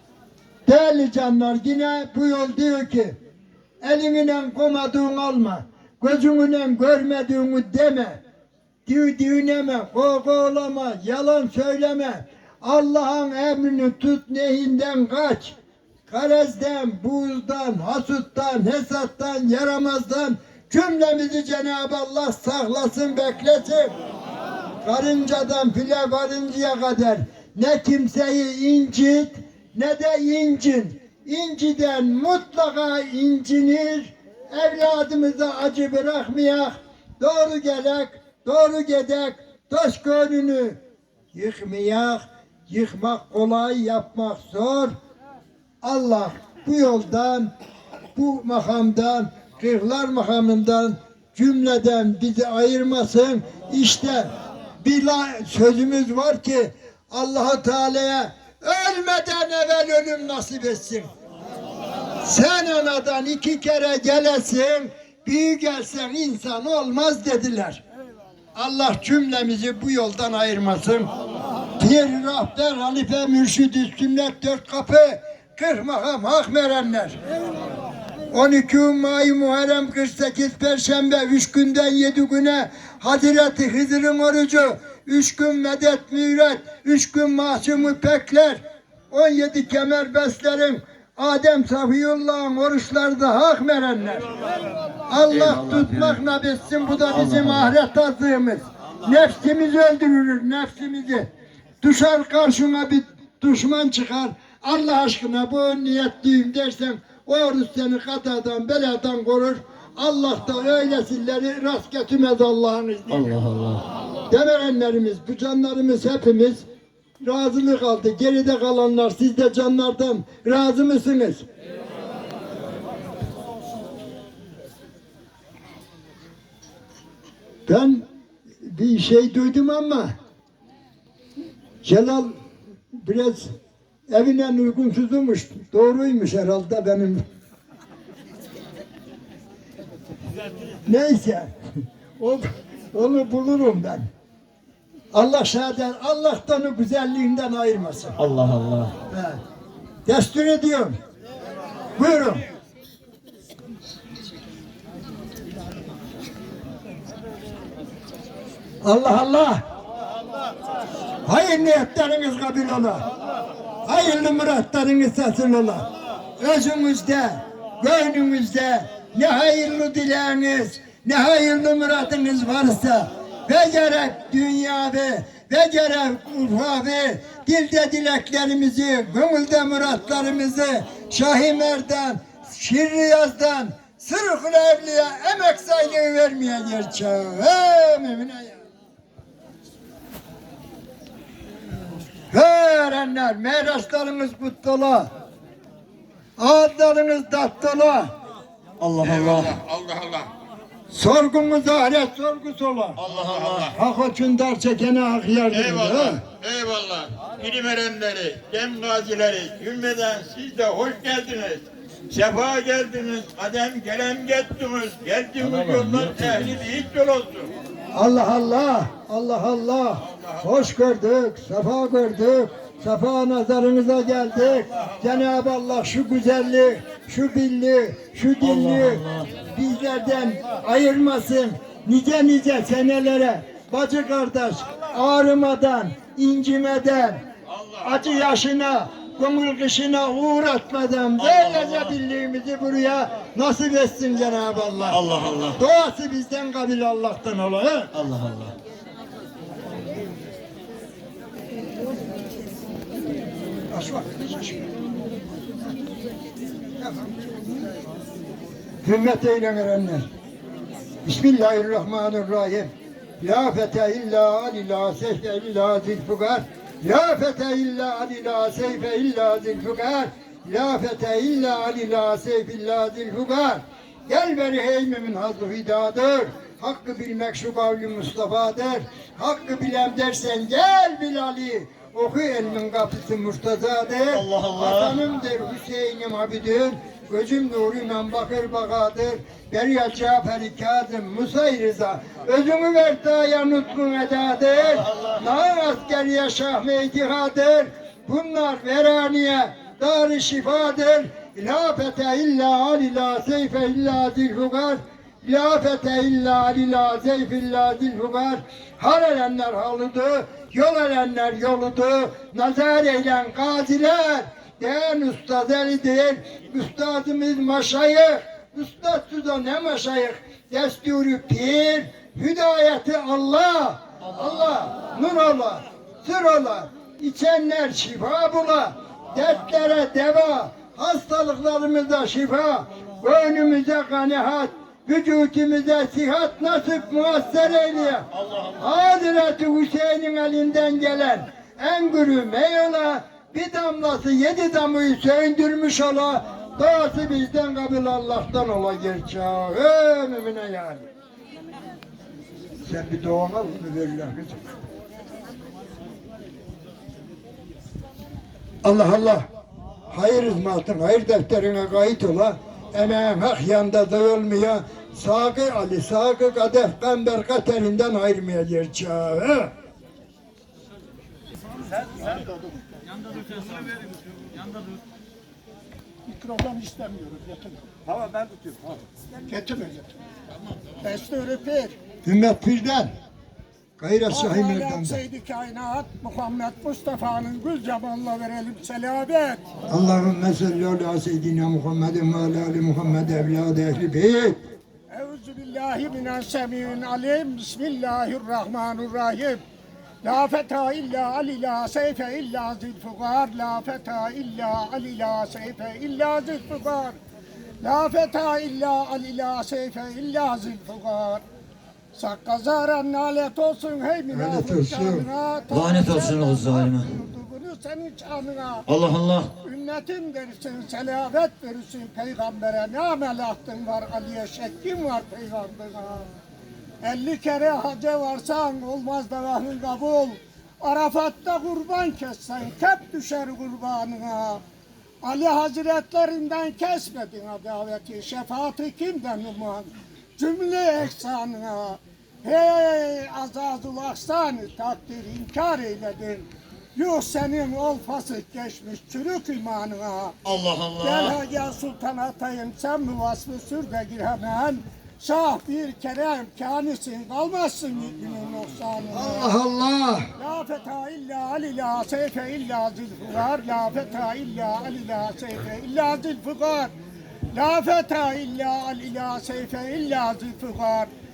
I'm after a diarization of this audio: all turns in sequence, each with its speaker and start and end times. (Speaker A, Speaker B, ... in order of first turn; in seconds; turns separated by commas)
Speaker A: 0.7-3.2, Speaker A: 3.8-8.2, Speaker A: 8.9-15.6, Speaker A: 16.1-23.9, Speaker A: 24.8-40.8, Speaker A: 41.3-44.9, Speaker A: 45.8-47.5, Speaker A: 48.1-61.1, Speaker A: 62.2-67.8, Speaker A: 68.5-71.1, Speaker A: 71.8-77.2, Speaker A: 78.3-94.3, Speaker A: 95.1-101.3, Speaker B: 95.3-96.2, Speaker B: 97.1-97.8, Speaker A: 101.8-113.3, Speaker B: 113.1-113.8, Speaker A: 114.3-116.7, Speaker A: 117.2-121.5, Speaker A: 127.7-128.0, Speaker A: 128.6-130.1, Speaker A: 131.8-132.3, Speaker A: 132.9-133.5, Speaker A: 134.1-137.2, Speaker A: 140.8-141.5, Speaker A: 142.2-144.1, Speaker A: 145.1-148.2, Speaker B: 148.2-148.9, Speaker A: 149.1-149.4, Speaker A: 150.1-151.0, Speaker A: 152.0-152.4, Speaker A: 158.8-159.6, Speaker A: 161.2-163.1, Speaker A: 163.8-165.9, Speaker A: 166.4-188.6, Speaker A: 192.3-195.1, Speaker A: 196.4-198.1, Speaker B: 198.8-199.6, Speaker C: 199.0-200.3, Speaker A: 200.9-203.0, Speaker B: 203.0-203.7, Speaker C: 203.1-203.7, Speaker A: 203.7-206.2, Speaker C: 205.5-217.5, Speaker B: 215.4-216.6, Speaker A: 217.9-237.2, Speaker C: 220.2-220.4, Speaker B: 228.4-229.3, Speaker C: 237.5-238.3, Speaker A: 237.8-245.0, Speaker B: 241.2-242.0, Speaker B: 244.9-245.6, Speaker A: 245.6-247.9, Speaker B: 247.9-248.6, Speaker A: 253.7-254.7, Speaker A: 256.8-257.1, Speaker A: 258.8-260.1, Speaker A: 261.0-350.9, Speaker B: 284.1-285.0, Speaker B: 294.7-295.2, Speaker B: 338.1-338.6, Speaker A: 352.6-354.5, Speaker A: 358.6-359.3, Speaker A: 359.9-369.5, Speaker D: 376.1-377.6, Speaker D: 379.2-379.9, Speaker D: 380.8-381.8, Speaker A: 382.0-382.9, Speaker A: 383.8-385.0, Speaker D: 384.1-389.4, Speaker A: 389.7-394.4, Speaker D: 394.9-399.4, Speaker D: 400.0-407.0, Speaker D: 407.6-411.2, Speaker D: 411.9-418.6, Speaker A: 414.1-415.1, Speaker B: 415.5-416.9, Speaker B: 418.7-419.3, Speaker D: 419.4-426.1, Speaker D: 426.8-434.4, Speaker D: 435.0-450.2, Speaker B: 450.2-451.2, Speaker D: 450.8-459.4, Speaker A: 458.9-460.1, Speaker D: 460.2-466.7, Speaker D: 467.3-470.9